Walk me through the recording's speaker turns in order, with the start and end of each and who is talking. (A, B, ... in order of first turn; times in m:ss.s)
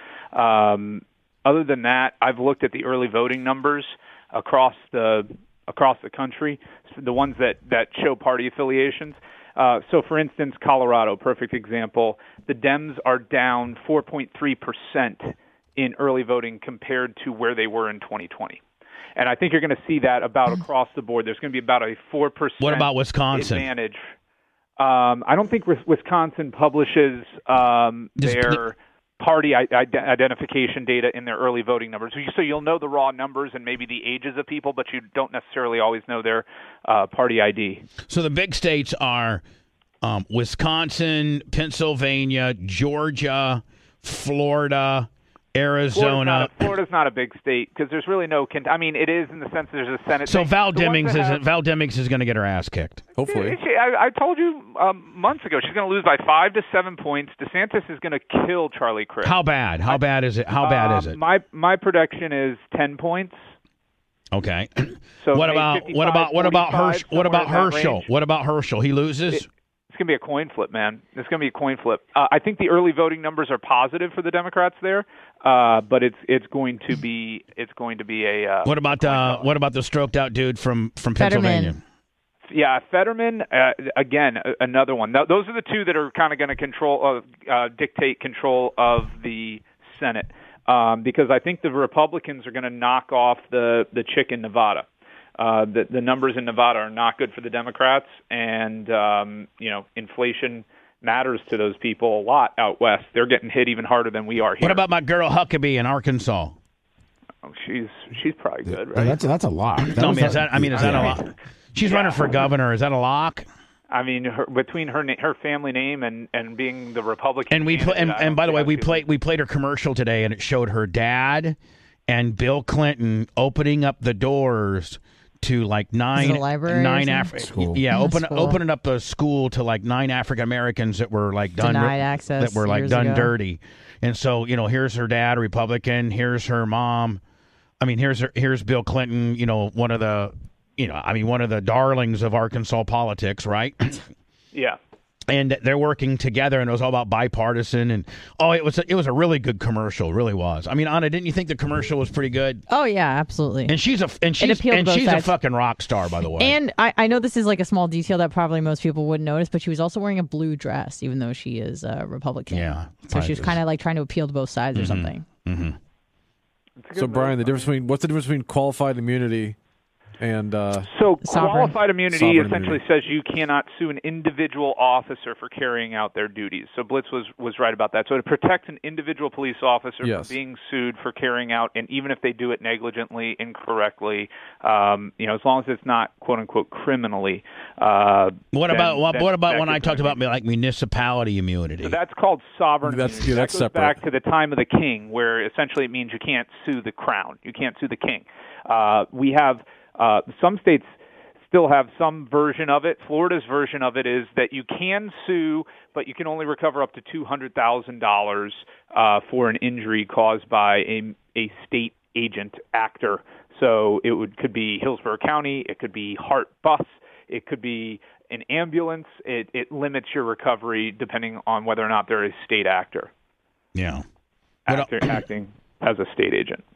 0:00.3-0:18.6 A
0:19.2-0:24.0 A
0:22.6-0:23.7 B
0:24.8-0:37.8 A
0:28.2-0:28.6 B
0:38.1-0:39.4 B
0:40.0-0:46.7 B
0:45.9-0:51.4 A
0:50.3-0:53.0 B
0:53.2-0:53.6 C
0:53.2-1:00.0 A
0:59.2-1:01.2 B
1:00.6-1:03.4 A
1:04.3-1:09.5 B
1:05.2-1:08.1 A
1:09.3-1:19.5 A
1:18.6-1:21.8 B
1:21.2-1:21.8 D
1:22.5-1:34.9 A
1:35.4-1:44.8 A
1:44.6-1:46.6 B
1:47.4-1:49.2 A
1:48.7-1:51.2 E
1:49.8-1:53.5 B
1:50.8-1:51.1 A
1:51.8-1:52.5 A
1:53.9-1:59.1 A
1:57.5-2:17.2 B
2:06.2-2:07.3 D
2:07.4-2:07.8 E
2:07.9-2:08.6 D
2:11.6-2:13.3 D
2:17.8-2:24.0 B
2:24.5-2:24.8 A
2:25.3-2:32.6 B
2:32.7-2:33.8 D
2:33.7-2:36.6 B
2:34.4-2:35.3 D
2:36.4-2:45.2 D
2:42.5-2:43.6 B
2:44.8-2:45.8 B
2:46.8-2:47.8 A
2:47.0-2:49.6 C
2:50.2-2:50.9 C
2:50.8-3:10.2 A
2:51.2-2:51.8 D
2:52.1-2:52.8 C
3:00.0-3:00.4 C
3:08.5-3:12.0 B
3:11.8-3:20.9 A
3:12.8-3:14.0 C
3:21.5-3:43.1 A
3:43.8-3:44.0 B
3:44.7-3:46.6 A
3:44.7-3:45.1 B